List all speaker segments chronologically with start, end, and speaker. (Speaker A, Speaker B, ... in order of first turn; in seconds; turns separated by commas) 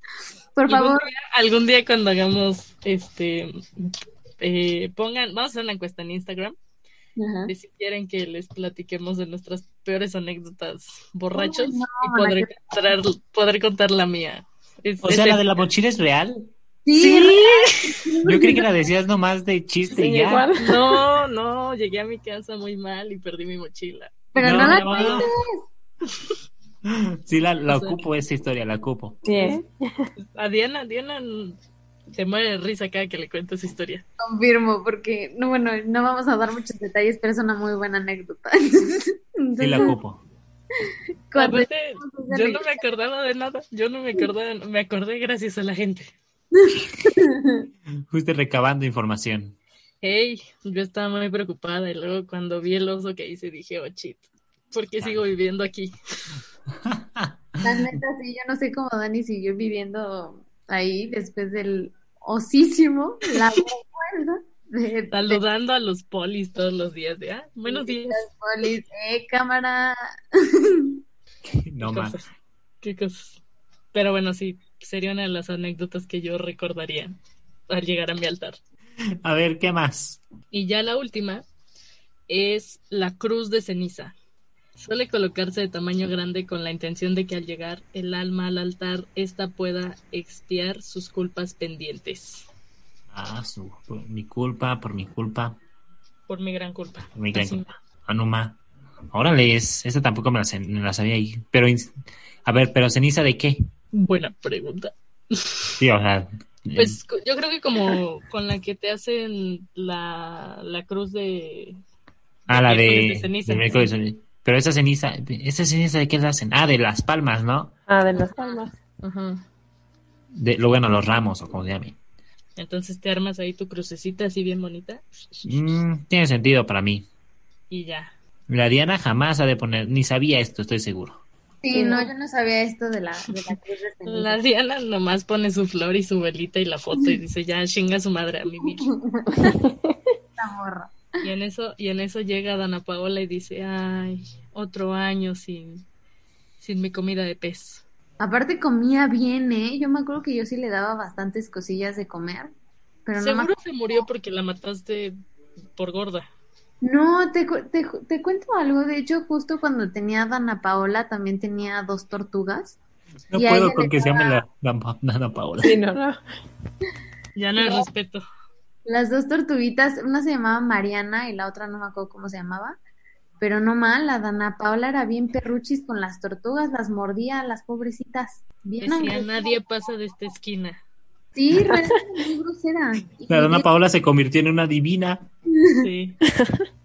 Speaker A: 0.6-1.1, Speaker B: 0.7-6.6, Speaker A: 7.2-7.5, Speaker B: 7.5-15.5, Speaker A: 11.3-12.6, Speaker C: 15.0-17.3, Speaker A: 16.9-18.7, Speaker B: 17.0-18.0, Speaker C: 18.2-20.5, Speaker D: 19.9-21.0, Speaker B: 20.6-25.3, Speaker A: 24.4-25.6, Speaker C: 24.4-25.3, Speaker C: 26.9-29.2, Speaker B: 27.7-28.0, Speaker D: 29.2-30.1, Speaker B: 30.4-31.6, Speaker B: 32.1-34.0, Speaker A: 34.2-40.0, Speaker C: 39.6-40.2, Speaker A: 41.3-42.8, Speaker B: 41.4-46.1, Speaker A: 46.5-47.7, Speaker C: 48.1-49.6, Speaker B: 50.0-55.9, Speaker C: 56.9-58.0, Speaker A: 57.6-65.4, Speaker B: 65.1-68.2, Speaker A: 67.7-70.0, Speaker A: 70.7-71.0, Speaker C: 71.5-72.2, Speaker B: 71.8-72.3, Speaker B: 72.8-73.4, Speaker B: 73.9-77.2, Speaker B: 77.7-78.6, Speaker C: 79.2-80.2, Speaker B: 80.5-81.5, Speaker B: 82.3-84.2, Speaker B: 84.8-92.5, Speaker C: 93.1-95.6, Speaker B: 96.3-97.7, Speaker C: 97.2-98.6, Speaker C: 99.1-101.9, Speaker C: 102.5-103.6, Speaker B: 103.9-105.8, Speaker C: 105.8-107.0, Speaker B: 106.8-111.8, Speaker C: 112.5-117.7, Speaker B: 112.5-113.9, Speaker D: 117.9-118.7, Speaker B: 118.2-119.4, Speaker C: 120.3-122.0, Speaker B: 122.6-125.5, Speaker C: 125.5-127.1, Speaker B: 127.7-128.1, Speaker C: 128.5-131.2, Speaker A: 131.6-134.4, Speaker D: 131.7-132.1, Speaker B: 134.1-138.9, Speaker A: 138.6-139.6, Speaker D: 139.4-140.0, Speaker A: 140.4-140.9, Speaker B: 141.2-145.8, Speaker B: 146.6-147.8, Speaker A: 148.2-152.5, Speaker A: 153.1-153.5, Speaker B: 153.2-155.2, Speaker B: 155.8-156.3, Speaker A: 156.8-162.8, Speaker C: 163.3-165.8, Speaker A: 163.4-164.4, Speaker D: 165.6-166.2, Speaker B: 167.3-168.2, Speaker A: 167.6-167.8, Speaker A: 168.9-172.8, Speaker A: 173.4-179.6, Speaker B: 178.8-180.8, Speaker A: 181.3-183.7, Speaker D: 181.6-181.9, Speaker C: 183.3-185.3, Speaker A: 185.6-185.9, Speaker B: 185.8-186.2, Speaker D: 186.3-186.7